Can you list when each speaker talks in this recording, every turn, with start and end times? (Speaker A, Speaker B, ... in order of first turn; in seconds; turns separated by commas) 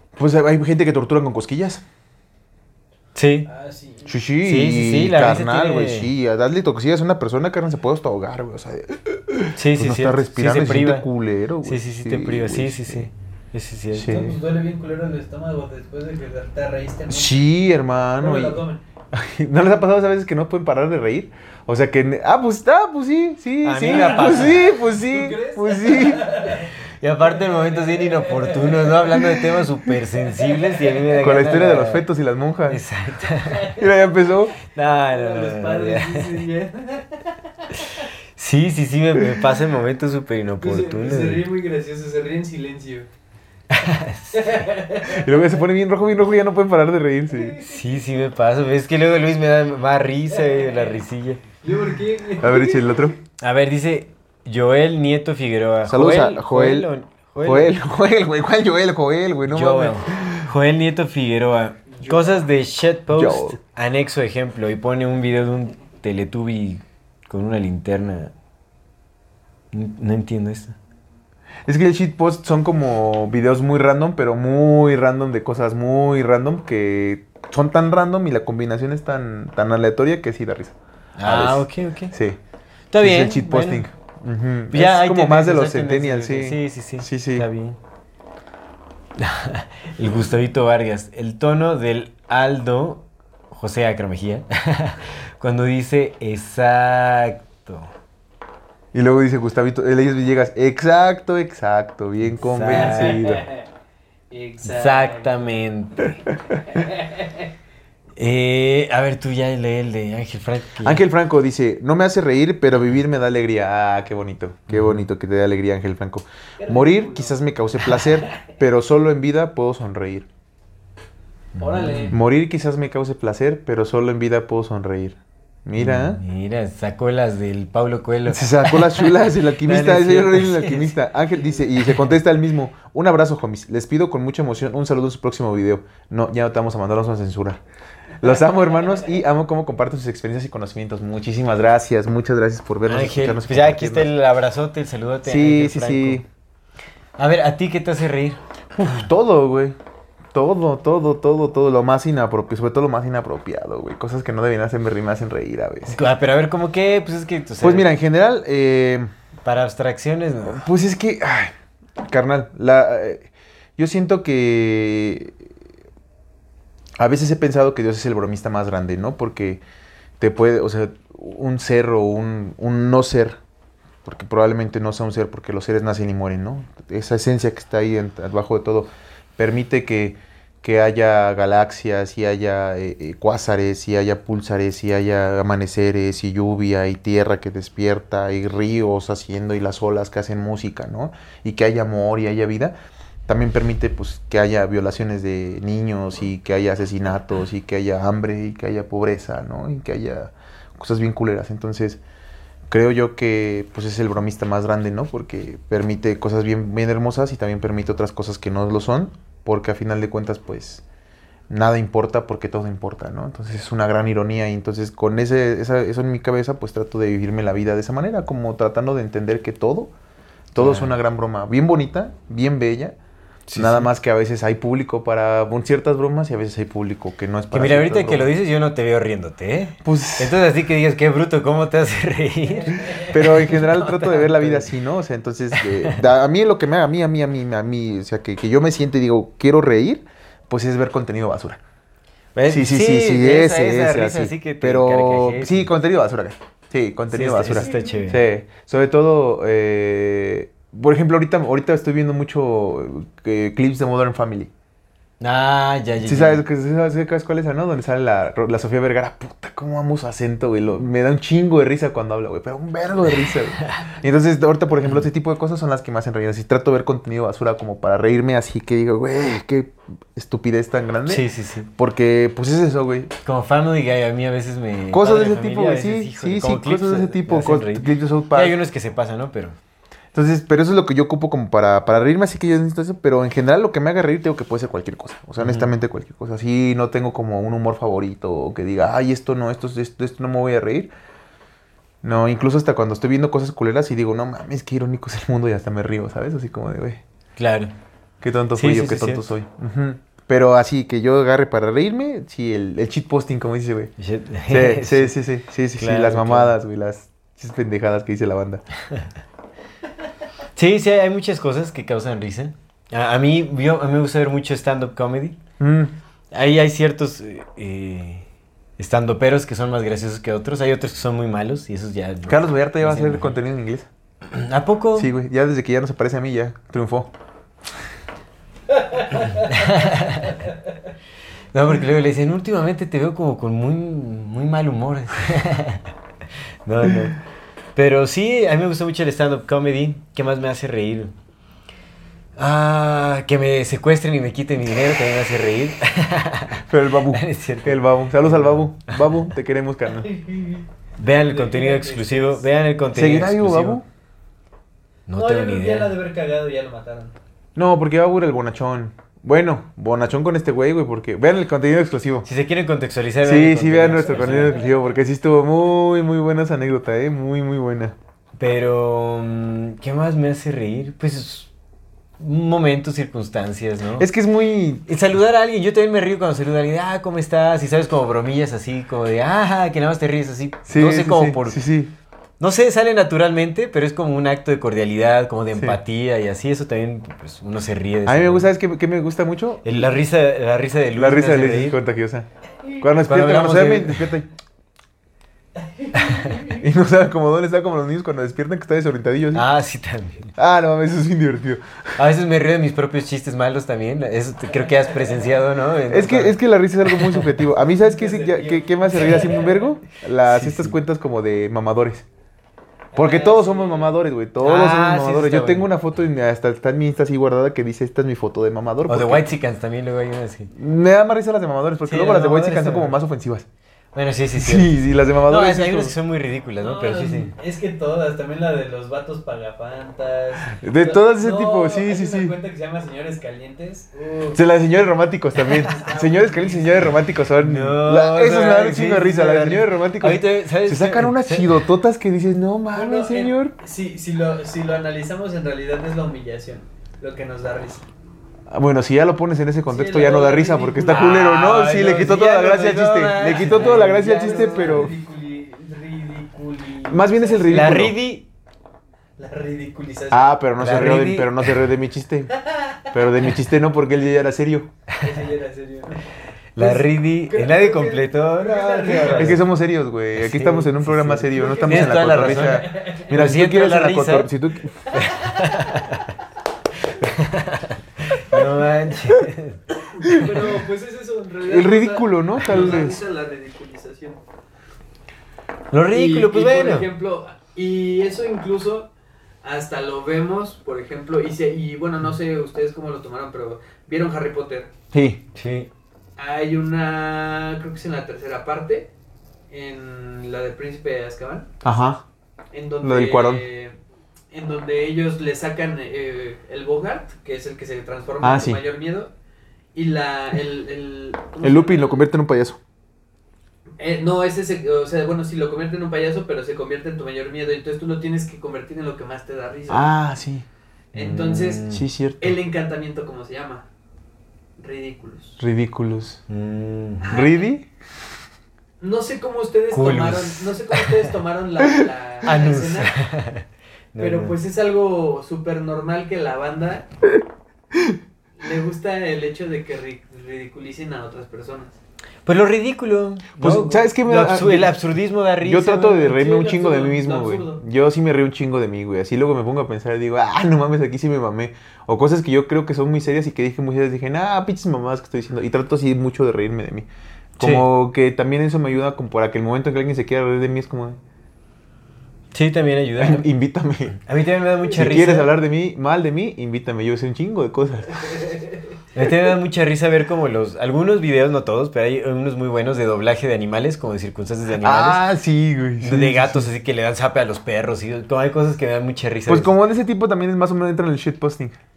Speaker A: 0.2-1.8, Speaker B: 3.1-3.5, Speaker C: 3.5-4.2, Speaker A: 4.1-13.1, Speaker B: 4.4-6.1, Speaker B: 9.6-11.1, Speaker B: 11.6-14.3, Speaker A: 13.9-14.3, Speaker C: 14.1-17.4, Speaker A: 17.1-26.5, Speaker C: 18.2-18.8, Speaker B: 23.6-24.6, Speaker C: 23.9-26.7, Speaker B: 27.0-32.1, Speaker C: 27.2-29.2, Speaker A: 31.2-32.8, Speaker B: 32.7-33.7, Speaker C: 33.3-34.0, Speaker A: 33.7-34.5, Speaker B: 34.7-36.5, Speaker C: 35.0-37.3, Speaker B: 38.4-41.5, Speaker C: 40.6-43.1, Speaker B: 43.7-44.6, Speaker C: 44.3-45.5, Speaker A: 45.0-47.6, Speaker C: 47.3-47.7, Speaker B: 47.6-51.4, Speaker C: 50.5-51.0, Speaker C: 51.6-52.9, Speaker A: 52.4-53.2, Speaker B: 53.4-57.8, Speaker A: 55.9-56.9, Speaker A: 57.4-60.5, Speaker B: 59.5-68.3, Speaker C: 62.0-62.4, Speaker A: 63.1-63.6, Speaker B: 69.7-70.8, Speaker A: 71.7-82.4, Speaker B: 81.2-82.2, Speaker B: 82.9-83.8, Speaker A: 83.0-87.5, Speaker B: 84.7-87.8, Speaker B: 89.2-97.9, Speaker A: 98.9-103.4, Speaker B: 102.4-103.4, Speaker C: 102.7-103.6, Speaker C: 104.3-105.5, Speaker B: 104.6-106.2, Speaker C: 106.7-107.5, Speaker B: 108.2-111.0, Speaker A: 110.8-120.3, Speaker B: 114.7-115.0, Speaker C: 116.6-117.4, Speaker C: 118.0-118.4, Speaker B: 121.6-122.2, Speaker C: 121.6-122.2, Speaker A: 122.1-126.2, Speaker B: 125.8-131.0, Speaker A: 128.3-137.6, Speaker B: 131.8-132.1, Speaker A: 138.2-144.1, Speaker B: 142.9-146.2, Speaker A: 145.2-146.2, Speaker B: 147.2-148.4, Speaker A: 148.8-149.8, Speaker A: 150.3-156.0, Speaker B: 155.9-157.9, Speaker A: 157.6-159.1, Speaker B: 159.4-160.7, Speaker A: 160.5-165.5, Speaker A: 167.0-169.6, Speaker A: 170.2-173.4, Speaker A: 174.1-192.8, Speaker A: 193.3-202.0, Speaker A: 202.7-210.8, Speaker A: 211.5-219.9, Speaker A: 220.5-223.0, Speaker B: 220.6-220.9, Speaker B: 223.5-223.9, Speaker A: 223.6-228.3, Speaker B: 227.5-234.7, Speaker A: 229.8-230.4, Speaker C: 232.7-233.1, Speaker A: 232.9-241.6, Speaker B: 235.6-236.0, Speaker B: 242.3-245.7, Speaker A: 242.5-254.5, Speaker B: 247.1-248.2, Speaker B: 255.2-256.4, Speaker A: 256.0-273.1, Speaker B: 271.1-271.7, Speaker B: 273.2-279.6, Speaker A: 274.9-278.6, Speaker A: 280.1-290.9, Speaker B: 285.4-285.7, Speaker A: 292.0-297.0, Speaker B: 297.4-297.7, Speaker A: 298.2-303.9, Speaker B: 298.6-299.3, Speaker B: 304.0-305.2, Speaker A: 304.5-308.6, Speaker B: 305.8-306.6, Speaker B: 310.6-315.4, Speaker A: 315.6-315.9, Speaker B: 316.3-318.2, Speaker B: 318.8-323.4, Speaker A: 322.3-323.9, Speaker B: 324.3-325.1, Speaker A: 324.9-327.1, Speaker B: 329.1-330.4, Speaker B: 331.5-335.9, Speaker B: 336.7-337.2, Speaker B: 337.8-341.1, Speaker B: 342.4-349.3, Speaker A: 346.7-350.1, Speaker C: 350.0-350.7, Speaker B: 351.0-353.8, Speaker C: 351.2-352.5, Speaker A: 352.9-353.9, Speaker B: 355.1-355.9, Speaker C: 355.1-357.1, Speaker A: 357.6-362.3, Speaker B: 362.2-364.6, Speaker A: 363.2-368.0, Speaker C: 364.2-364.9, Speaker B: 368.4-371.5, Speaker B: 372.2-374.1, Speaker A: 374.0-374.9, Speaker B: 374.9-381.6, Speaker A: 380.7-381.9, Speaker B: 382.4-388.5, Speaker A: 385.5-385.8, Speaker A: 388.1-389.9, Speaker B: 389.6-391.8, Speaker A: 390.9-392.3, Speaker A: 392.8-394.3, Speaker B: 393.0-394.1, Speaker C: 395.8-396.6, Speaker B: 395.9-396.3, Speaker A: 396.5-399.5, Speaker B: 399.3-400.3, Speaker A: 400.4-401.6, Speaker B: 402.0-407.3, Speaker A: 405.9-412.1, Speaker C: 407.6-409.8, Speaker B: 410.3-410.8, Speaker C: 412.9-414.0, Speaker A: 412.9-419.3, Speaker B: 414.4-415.7, Speaker B: 418.9-420.5, Speaker A: 420.5-423.5, Speaker B: 421.9-423.0, Speaker B: 423.9-427.3, Speaker A: 424.4-426.0, Speaker C: 426.6-434.4, Speaker A: 430.5-432.4, Speaker A: 434.3-443.5, Speaker C: 435.4-437.0, Speaker B: 437.4-441.6, Speaker C: 442.7-447.9, Speaker A: 448.5-454.9, Speaker C: 449.7-452.0, Speaker B: 450.8-454.9, Speaker C: 453.2-457.8, Speaker A: 456.9-457.9, Speaker B: 457.5-458.3, Speaker C: 459.2-460.4, Speaker A: 460.1-462.3, Speaker B: 460.6-461.6, Speaker C: 462.4-462.9, Speaker A: 462.9-464.7, Speaker C: 465.0-466.1, Speaker B: 466.6-469.4, Speaker C: 466.6-469.4, Speaker A: 469.1-474.8, Speaker B: 470.2-474.3, Speaker C: 471.3-473.1, Speaker C: 474.9-475.8, Speaker B: 474.9-476.1, Speaker B: 476.8-479.6, Speaker C: 479.9-484.2, Speaker A: 481.4-483.0, Speaker B: 485.7-486.9, Speaker C: 485.9-488.9, Speaker C: 489.4-494.7, Speaker A: 494.9-495.2, Speaker B: 495.4-495.7, Speaker C: 496.2-498.9, Speaker C: 499.5-501.5, Speaker A: 501.6-502.1, Speaker C: 502.5-503.8, Speaker A: 502.8-503.4, Speaker C: 504.3-509.1, Speaker A: 508.2-508.6, Speaker C: 509.8-512.0, Speaker A: 511.4-512.6, Speaker C: 513.8-519.9, Speaker A: 519.7-520.5, Speaker C: 520.9-521.6, Speaker B: 520.9-521.9, Speaker A: 521.7-522.4, Speaker C: 522.2-523.7, Speaker C: 524.6-525.4, Speaker A: 525.4-526.2, Speaker B: 526.3-527.1, Speaker C: 527.0-527.5, Speaker A: 527.1-527.7, Speaker C: 528.8-533.0, Speaker B: 529.7-530.9, Speaker B: 532.3-534.4, Speaker C: 534.0-536.9, Speaker C: 538.4-541.8, Speaker B: 542.3-546.1, Speaker A: 543.4-544.8, Speaker A: 545.4-561.0, Speaker C: 546.0-547.6, Speaker B: 557.4-557.7, Speaker B: 562.3-563.3, Speaker A: 563.0-564.0, Speaker B: 564.0-565.3, Speaker A: 564.7-568.0, Speaker B: 569.0-575.0, Speaker A: 574.6-576.5, Speaker B: 575.8-579.5, Speaker A: 579.3-581.6